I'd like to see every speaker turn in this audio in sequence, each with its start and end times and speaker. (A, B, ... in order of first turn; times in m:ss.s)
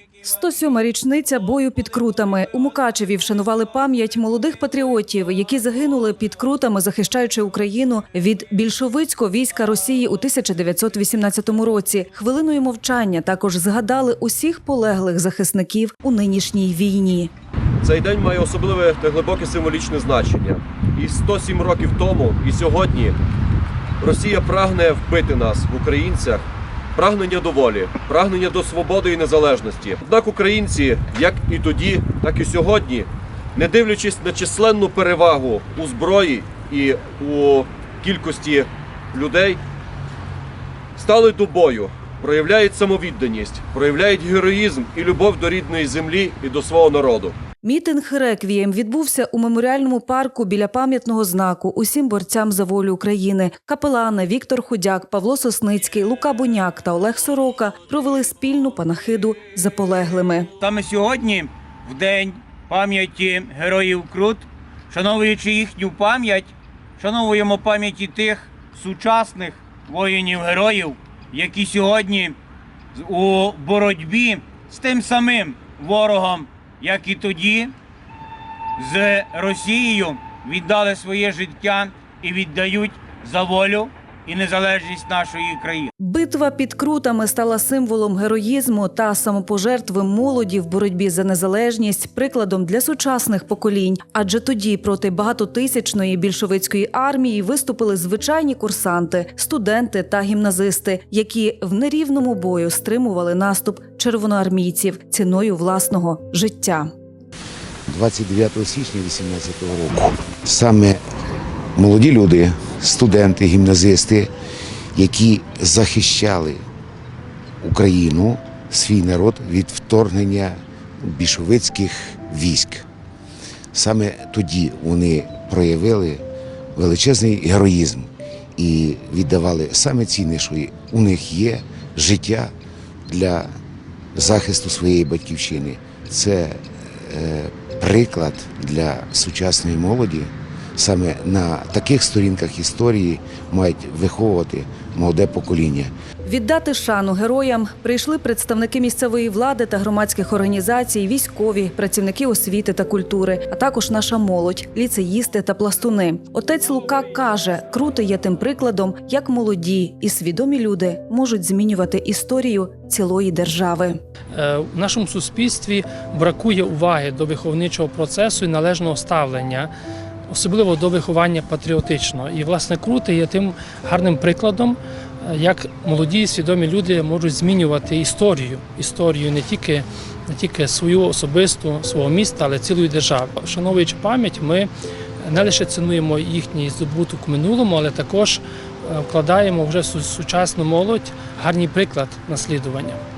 0:00.2-0:17.3 A
0:17.8-0:23.2 B
0:24.0-0:39.6 B
0:41.0-0:47.4 B
0:47.6-1:00.5 A
1:00.6-1:12.4 C
1:12.9-1:17.7 C
1:18.8-1:25.9 C
1:26.0-1:46.9 A
1:47.9-1:51.0 D
1:51.8-1:54.3 D
1:54.9-1:56.6 D
1:57.6-2:02.8 D
2:03.7-2:06.2 D
2:06.8-2:12.5 D
2:13.1-2:13.6 D
2:14.1-2:25.9 D
2:26.2-2:44.0 A
2:44.3-2:49.7 E
2:50.3-3:04.7 E
3:05.2-3:13.0 E